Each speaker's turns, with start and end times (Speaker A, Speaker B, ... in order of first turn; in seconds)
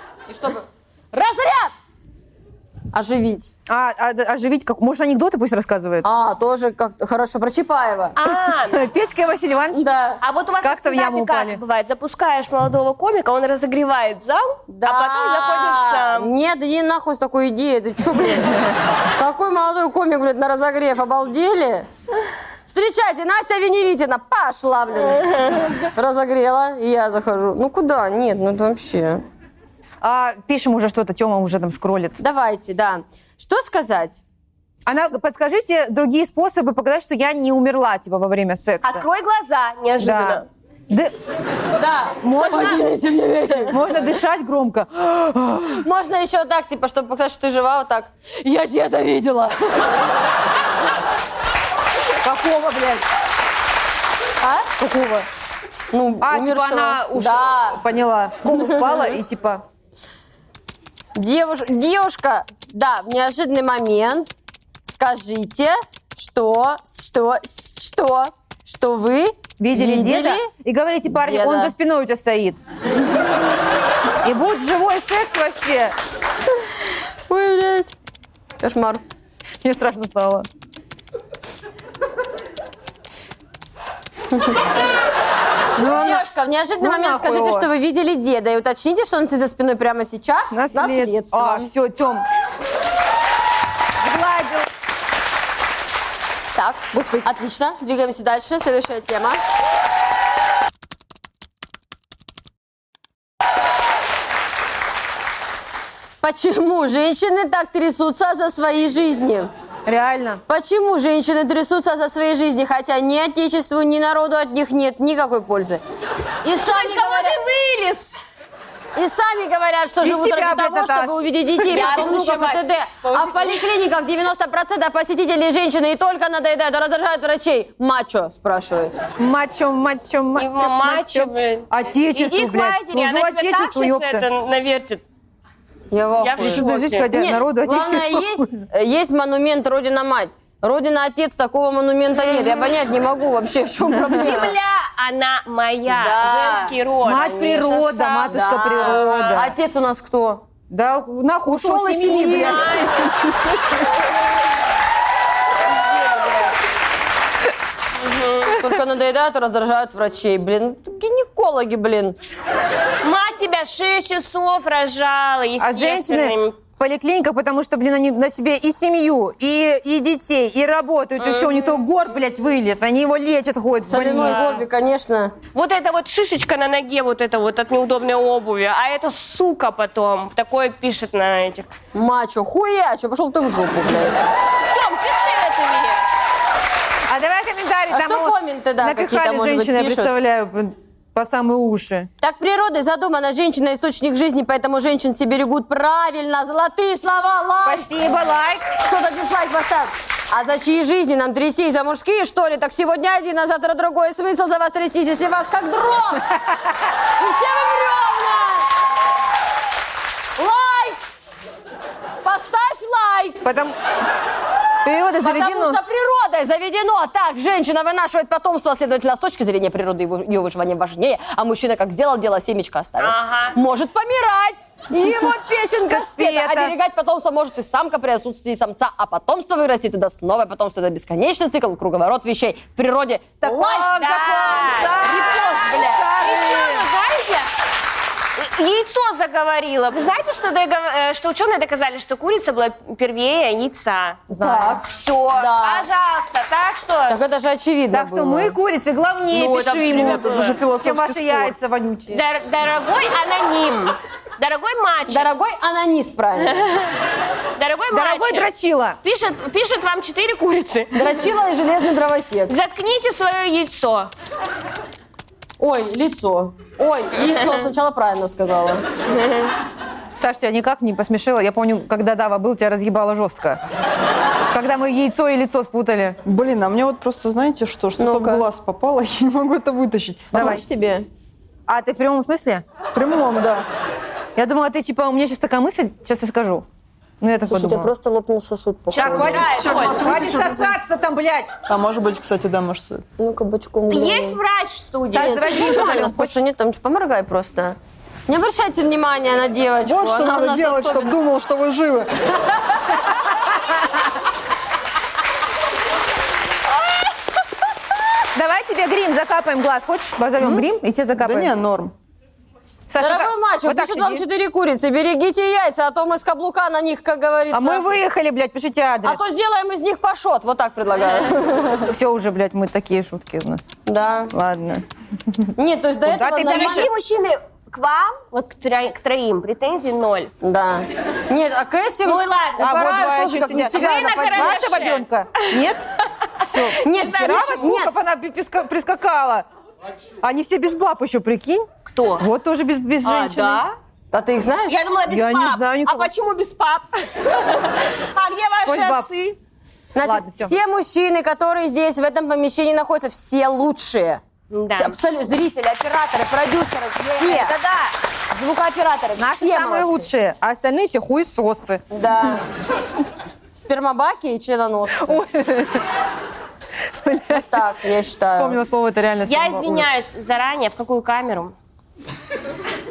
Speaker A: 0.3-1.7, 2.9-3.5, 6.0-8.1, 9.7-10.2, 14.7-21.9, 22.7-29.2, 32.2-34.2, 41.8-43.8, 45.8-50.0, 54.4-54.7, 55.9-57.8, 58.6-58.9, 61.1-64.3, 64.8-70.5, 71.1-71.7, 77.3-77.9, 78.6-79.0, 85.8-91.7, 96.5-99.4, 106.2-109.5, 110.5-115.8, 116.4-117.4, 118.9-128.9, 135.9-144.5, 145.9-146.8, 148.3-150.4, 151.7-152.8, 155.7-156.5, 158.5-162.2, 173.9-175.3, 181.9-184.2, 187.9-190.1, 192.2-197.9, 198.8-206.3, 207.2-208.7, 210.4-211.0, 212.2-213.4, 215.2-233.8, 235.0-236.1, 244.3-245.9, 247.1-248.6, 255.1-256.6, 260.9-262.5, 265.6-268.8, 278.0-278.4, 280.3-281.1, 287.5-289.3, 293.2-294.4, 295.1-301.2, 313.0-317.9, 319.0-321.9, 323.9-324.3, 325.6-326.9, 330.4-334.8, 336.8-337.9, 344.1-344.8, 349.9-354.2, 354.7-357.6, 358.3-360.1, 361.9-362.4, 363.5-365.2, 367.3-368.6
Speaker B: 3.7-6.0, 8.2-9.8, 10.6-11.6, 30.0-32.2, 34.9-39.0, 40.0-41.1, 42.2-42.8, 43.7-45.8, 52.2-53.0, 54.8-55.3, 56.2-59.6, 69.6-72.6, 74.2-75.9, 79.6-80.5, 85.8-86.2, 86.8-87.7, 90.5-92.2, 94.0-94.7, 96.9-97.3, 109.8-110.4, 120.0-121.8, 129.2-134.3, 136.4-138.5, 147.0-149.5, 150.7-153.3, 165.6-174.6, 187.1-192.1, 197.6-198.7, 213.4-213.8, 214.8-215.8, 225.9-226.7, 233.4-236.9, 244.3-244.8, 247.9-252.2, 257.9-259.0, 270.2-273.6, 274.5-276.2, 280.3-280.6, 281.7-282.6, 284.4-286.6, 287.2-287.9, 288.9-291.5, 295.1-296.4, 308.3-311.5, 312.9-314.2, 317.5-319.2, 321.9-323.7, 324.3-325.5, 326.0-326.9, 332.6-335.8, 336.4-339.4, 340.2-341.7, 342.2-343.6, 345.1-346.1, 348.6-349.1, 350.0-350.5, 359.2-361.8, 364.9-365.9, 366.9-369.9
Speaker C: 8.2-8.8, 10.2-16.3, 38.8-40.5, 116.6-118.2, 121.6-123.7, 130.3-135.0, 136.2-137.1, 144.1-149.4, 151.6-153.3, 158.0-158.5, 163.0-166.6, 171.2-171.7, 174.1-174.6, 175.5-181.7, 184.6-186.0, 223.0-223.6, 233.5-235.4, 235.9-237.5, 238.4-244.2, 244.8-247.2, 249.3-250.6, 252.1-255.3, 256.4-256.8, 257.6-258.5, 259.0-261.1, 262.5-264.1, 269.1-269.5, 288.9-290.1, 293.9-295.9, 326.4-330.3, 332.0-333.0, 333.6-335.6, 336.5-337.7, 341.8-342.2, 343.0-343.8, 344.7-349.4, 354.5-355.0, 357.1-357.9, 369.2-371.5
Speaker D: 249.4-251.5, 276.2-280.5, 282.9-283.6, 289.0-290.8, 291.7-293.0, 299.9-302.1, 311.2-311.9